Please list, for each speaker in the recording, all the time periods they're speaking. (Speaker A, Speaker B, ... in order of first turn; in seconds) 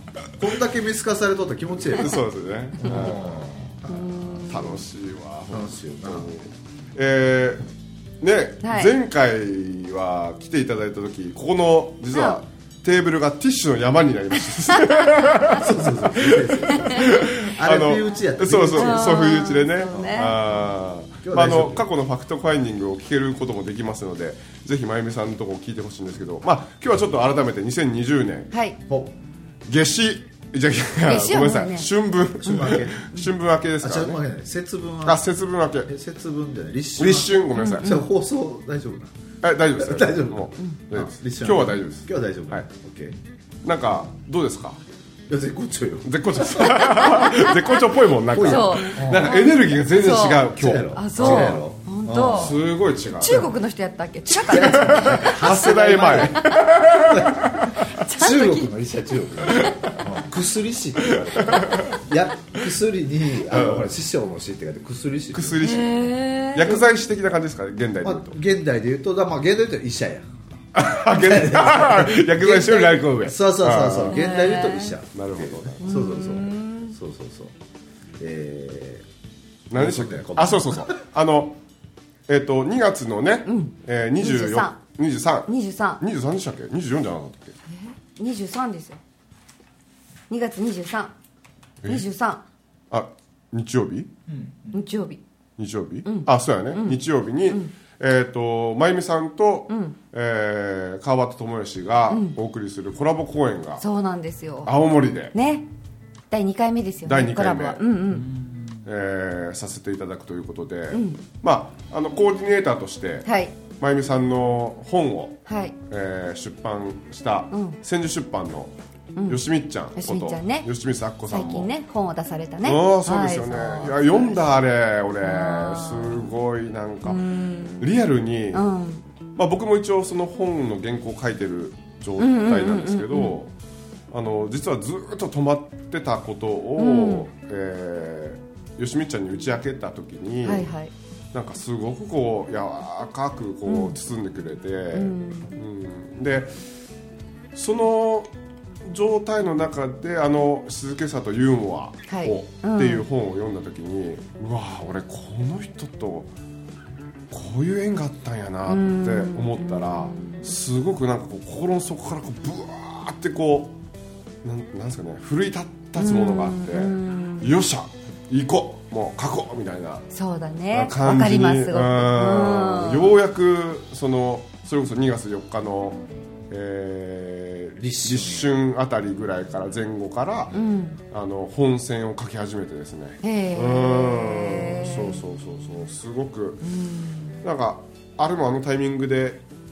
Speaker A: 0.4-2.2, 2.8-4.6, 5.5-6.3, 15.5-19.3, 21.2-21.8, 28.9-29.2, 32.4-33.1, 33.8-35.2, 35.9-39.1, 39.8-43.2, 45.3-47.0, 48.3-49.4, 50.5-52.7, 54.4-65.6, 68.0-77.5, 78.2-79.0, 79.7-80.9, 94.3-94.7, 108.4-108.7, 177.8-178.5
Speaker B: 1.9-3.4, 4.4-7.7, 8.2-28.5, 29.6-34.2, 35.0-35.9, 37.0-38.0, 39.4-42.6, 43.6-44.8, 46.0-51.7, 52.2-53.5, 54.4-57.4, 61.1-61.9, 63.5-63.9, 65.3-68.4, 70.7-74.2, 75.1-75.8, 79.7-81.6, 82.3-87.5, 92.9-94.1, 95.6-103.8, 104.6-105.3, 107.0-107.8, 108.8-118.7, 119.2-121.7, 122.6-128.7, 129.3-133.5, 134.1-140.7, 141.3-146.5, 147.5-148.3, 148.8-156.3, 157.3-163.7, 164.4-170.1, 170.7-180.5, 181.1-186.6, 187.4-189.4
Speaker C: 3.9-4.8, 8.6-8.9, 12.1-12.4, 16.7-17.0, 18.8-20.4, 28.5-28.8, 31.1-31.9, 37.5-38.0, 46.8-52.6, 53.1-56.7, 57.9-58.7, 65.6-66.8, 74.1-75.0, 75.8-77.0, 83.5-84.8, 85.5-86.0, 87.7-89.0, 90.3-91.1, 91.8-92.4, 94.7-95.2, 96.0-97.7, 99.7-100.0, 102.1-102.4, 103.8-104.7, 105.3-105.7, 106.3-108.3, 110.9-111.2, 113.2-113.5, 115.5-115.7, 117.5-117.8, 119.1-119.4, 119.9-120.7, 121.3-124.4, 125.2-126.3, 127.0-128.0, 128.5-129.0, 132.2-133.4, 136.8-137.3, 140.4-140.9, 143.7-144.0, 144.9-145.5, 152.1-153.0, 158.7-160.6, 166.0-167.5, 170.1-173.1, 180.5-181.0, 183.2-185.2, 186.6-187.3